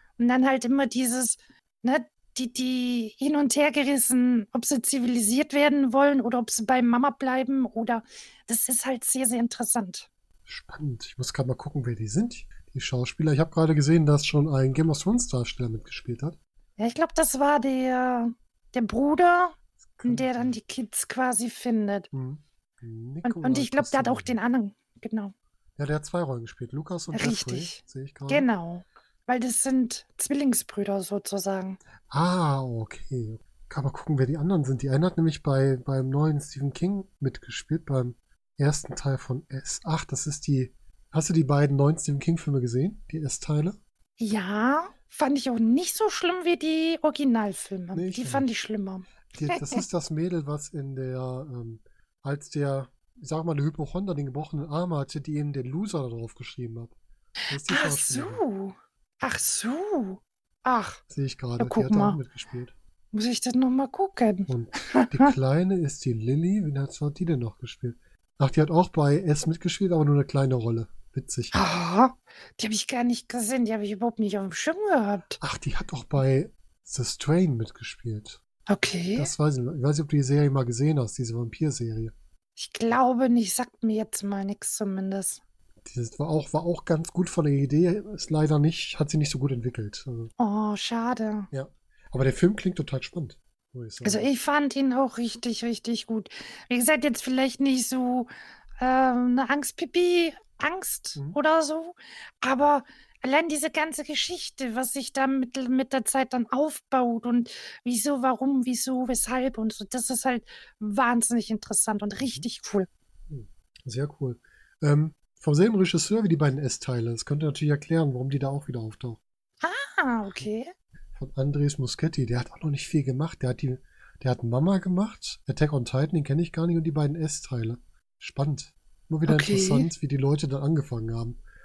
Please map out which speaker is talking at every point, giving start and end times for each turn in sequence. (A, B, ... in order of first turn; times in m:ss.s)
0:00.2-0:10.1 A
0:10.5-0:16.4 B
0:16.8-0:22.1 A
0:19.9-0:20.6 B
0:22.1-0:24.4 B
0:23.2-0:25.3 A
0:25.8-0:28.5 B
0:27.1-0:31.8 A
0:32.1-0:43.8 B
0:44.2-0:49.8 A
0:47.9-0:48.5 B
0:49.3-0:57.0 B
0:57.5-0:58.4 B
0:57.6-1:01.0 A
1:01.1-1:02.7 B
1:01.6-1:02.2 A
1:03.1-1:05.3 A
1:04.5-1:11.5 B
1:11.5-1:15.4 A
1:15.4-1:18.4 B
1:18.7-1:19.3 A
1:19.2-1:22.1 B
1:22.6-1:25.4 A
1:25.8-1:30.3 B
1:30.4-1:31.5 A
1:31.5-1:34.3 B
1:34.0-1:38.3 A
1:38.8-1:52.9 A
1:52.2-1:52.5 B
1:53.3-1:59.2 B
1:59.6-2:00.7 A
2:01.2-2:11.4 B
2:09.3-2:09.9 A